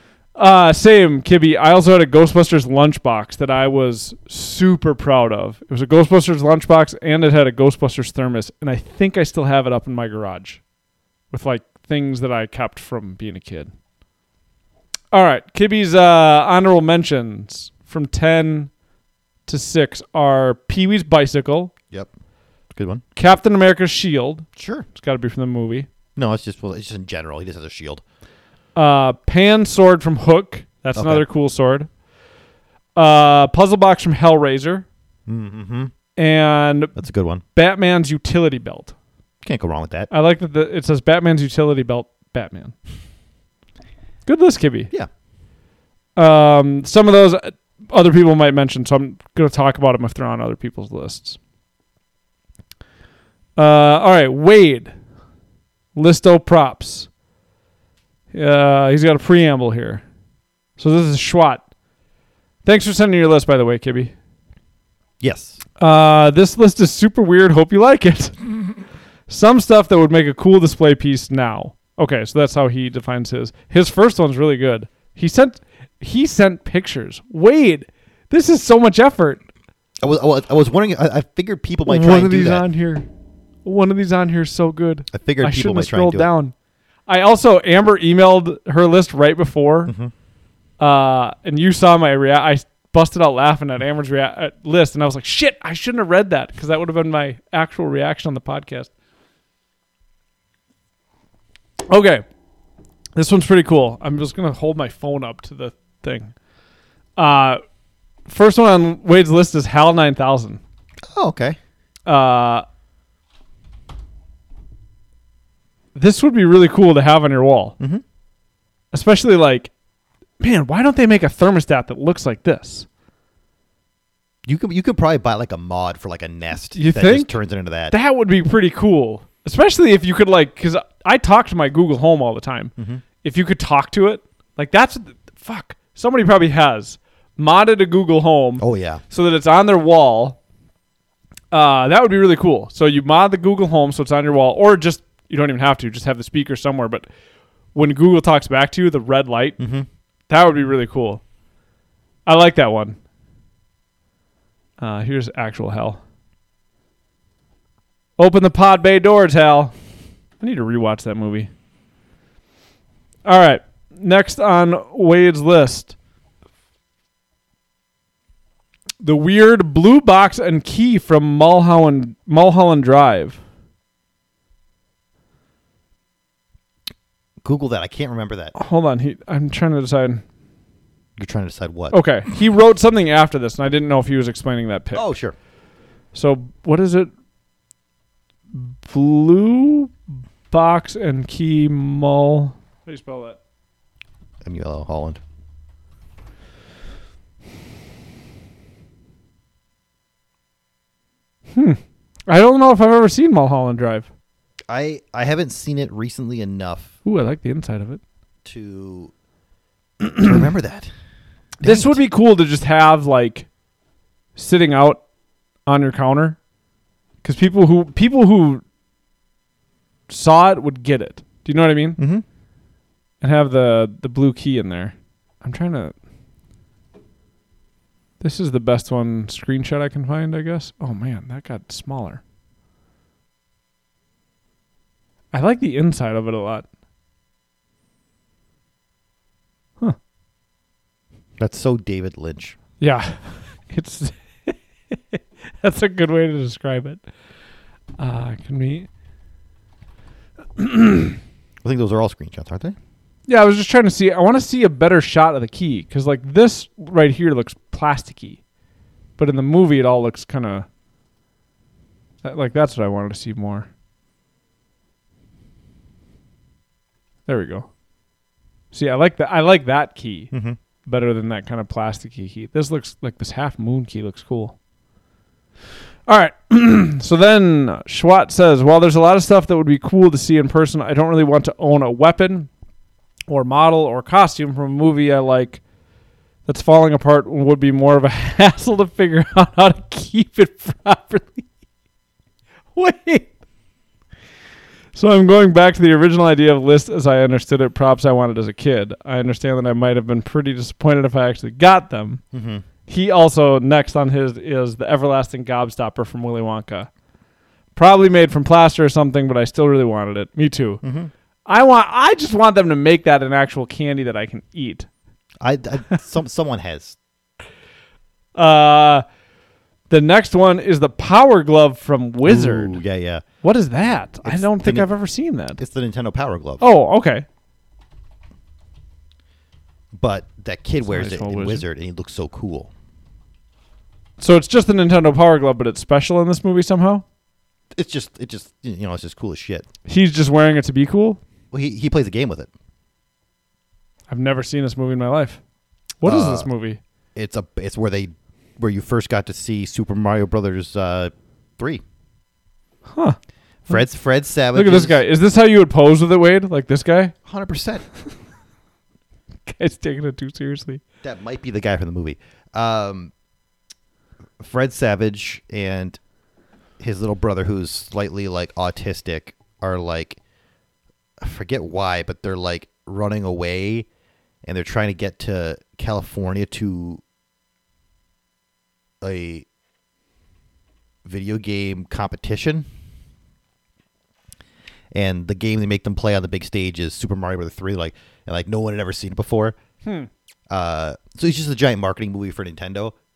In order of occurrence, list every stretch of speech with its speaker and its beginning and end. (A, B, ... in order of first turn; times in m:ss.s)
0:00.3-0:10.6 A
0:11.3-0:13.7 A
0:15.1-0:18.7 A
0:19.5-0:21.7 A
0:22.7-0:23.0 B
0:23.2-0:25.9 A
0:24.6-0:24.8 B
0:26.2-0:28.0 B
0:28.7-0:31.9 A
0:30.9-0:31.2 B
0:33.0-0:34.8 A
0:35.3-0:35.9 B
0:36.2-0:36.9 A
0:36.9-0:37.4 B
0:37.5-0:38.9 A
0:39.4-0:40.1 B
0:40.1-0:42.7 A
0:44.2-0:44.9 A
0:46.2-0:51.4 A
0:53.6-0:54.9 A
0:55.9-0:57.1 A
0:58.3-1:00.0 A
1:00.8-1:01.6 A
1:02.6-1:04.1 A
1:05.2-1:05.6 B
1:05.8-1:08.4 A
1:09.3-1:19.4 A
1:20.0-1:22.6 B
1:21.8-1:23.1 A
1:23.6-1:26.5 A
1:25.1-1:26.3 B
1:27.1-1:29.9 A
1:29.9-1:30.1 B
1:30.8-1:38.9 A
1:41.9-1:42.2 A
1:43.1-1:46.3 A
1:47.2-1:47.6 A
1:48.2-1:50.6 A
1:51.0-1:51.6 B
1:52.0-1:52.6 A
1:55.9-1:57.8 A
1:58.9-1:59.7 A
2:00.4-2:02.9 A
2:04.4-2:07.9 B
2:06.7-2:07.4 A
2:07.9-2:20.4 A
2:12.8-2:13.0 B
2:18.6-2:19.0 B
2:21.5-2:27.1 A
2:27.7-2:29.6 A
2:29.6-2:29.8 B
2:30.3-2:31.2 A
2:32.2-2:33.0 A
2:34.8-2:36.0 A
2:38.2-2:39.7 A
2:40.4-2:41.5 A
2:43.2-2:45.9 A
2:49.0-2:53.4 A
2:57.4-2:58.5 B
2:58.5-3:00.2 A
3:01.2-3:02.0 B
3:01.9-3:05.0 A
3:04.9-3:05.3 B
3:06.1-3:07.1 A
3:08.5-3:09.9 A
3:10.5-3:13.4 A
3:14.4-3:15.2 B
3:21.5-3:24.1 A
3:24.7-3:26.9 B
3:27.0-3:28.0 A
3:28.4-3:29.1 B
3:30.0-3:30.3 A
3:30.2-3:30.9 B
3:31.6-3:32.0 B
3:31.6-3:33.5 A
3:34.3-3:35.0 A
3:35.6-3:36.4 A
3:37.2-3:38.6 A
3:40.1-3:42.0 A
3:42.0-3:42.2 B
3:43.2-3:45.9 A
3:48.2-3:52.2 A
3:55.3-3:56.6 A
4:01.4-4:02.6 B
4:02.8-4:07.0 A
4:08.0-4:08.9 A
4:10.6-4:11.2 A
4:11.6-4:12.8 B
4:13.3-4:18.4 A
4:19.2-4:20.7 A
4:22.2-4:23.7 A
4:27.3-4:27.7 A
4:28.7-4:30.3 A
4:30.3-4:30.6 B
4:30.8-4:34.5 A
4:36.1-4:42.5 A
4:43.3-4:45.6 A
4:46.4-4:51.4 A
4:52.7-4:53.3 A
4:54.9-5:02.2 A
5:02.3-5:02.6 B
5:02.9-5:06.9 A
5:07.8-5:10.8 A
5:10.8-5:11.1 B
5:11.4-5:14.9 A
5:15.4-5:17.0 B
5:18.3-5:19.0 A
5:19.9-5:22.8 A
5:22.2-5:23.2 B
5:23.4-5:25.6 A
5:24.2-5:24.9 B
5:25.6-5:26.6 B
5:26.6-5:27.2 A
5:29.9-5:32.7 B
5:30.8-5:31.6 A
5:34.2-5:37.0 A
5:37.7-5:39.7 B
5:39.8-5:41.2 A
5:41.5-5:42.5 B
5:44.1-5:45.4 A
5:46.0-5:46.8 A
5:46.0-5:46.5 B
5:47.1-5:51.8 B
5:52.9-5:53.2 A
5:53.7-5:55.0 B
5:54.5-5:57.1 A
5:57.2-5:57.8 B
5:59.4-6:00.8 A
6:01.0-6:03.1 B
6:04.4-6:06.0 B
6:06.8-6:10.2 B
6:11.2-6:13.9 B
6:14.4-6:17.0 B
6:19.0-6:19.5 B
6:21.0-6:22.7 B
6:24.9-6:29.6 B
6:29.8-6:30.1 A
6:30.5-6:32.9 B